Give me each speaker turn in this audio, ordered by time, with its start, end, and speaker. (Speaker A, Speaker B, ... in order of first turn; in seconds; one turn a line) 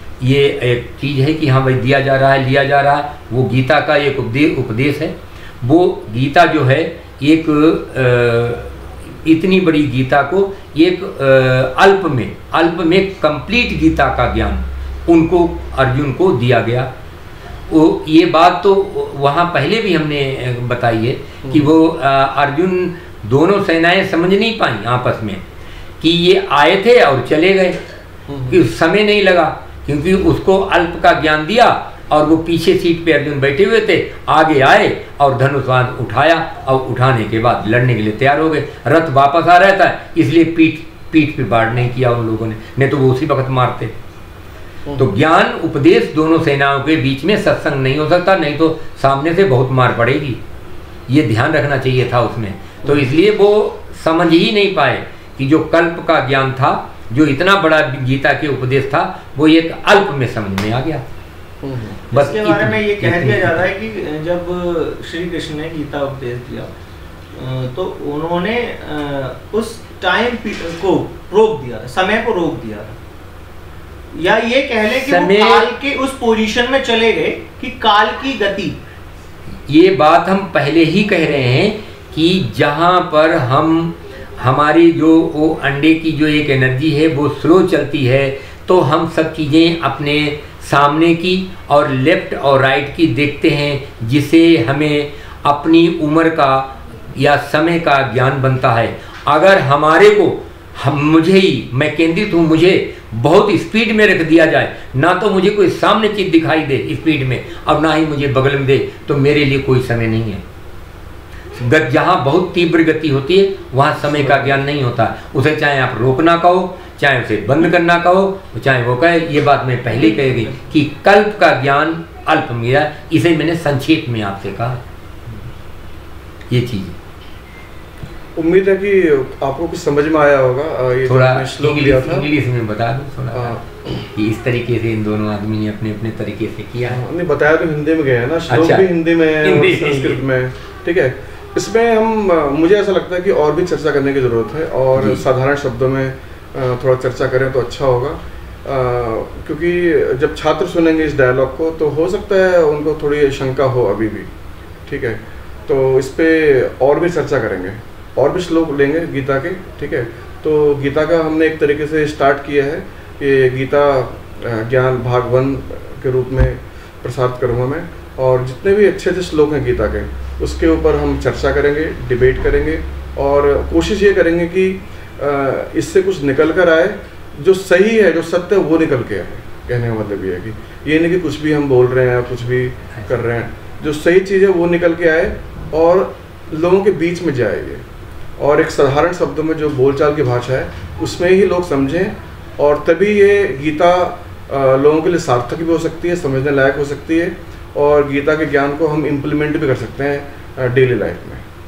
Speaker A: 0.2-16.9
Speaker A: 17.7-25.4
Speaker B: 21.4-21.7
Speaker A: 26.0-27.8
Speaker B: 28.3-28.6
Speaker A: 28.5-43.9
Speaker A: 45.0-50.4
Speaker A: 51.1-61.0
Speaker B: 52.8-53.1
Speaker B: 61.6-62.0
Speaker C: 62.1-66.7
Speaker A: 62.1-63.6
Speaker C: 67.3-73.0
Speaker C: 74.1-78.8
Speaker A: 74.9-75.7
Speaker A: 79.7-110.4
Speaker A: 111.6-124.8
Speaker B: 114.1-114.6
Speaker A: 126.5-127.0
Speaker B: 128.3-132.3
Speaker A: 131.0-137.0
Speaker B: 133.3-133.8
Speaker B: 136.8-154.3
Speaker A: 138.5-138.9
Speaker A: 139.4-140.2
Speaker A: 144.9-145.2
Speaker B: 154.8-187.8
Speaker B: 188.4-201.4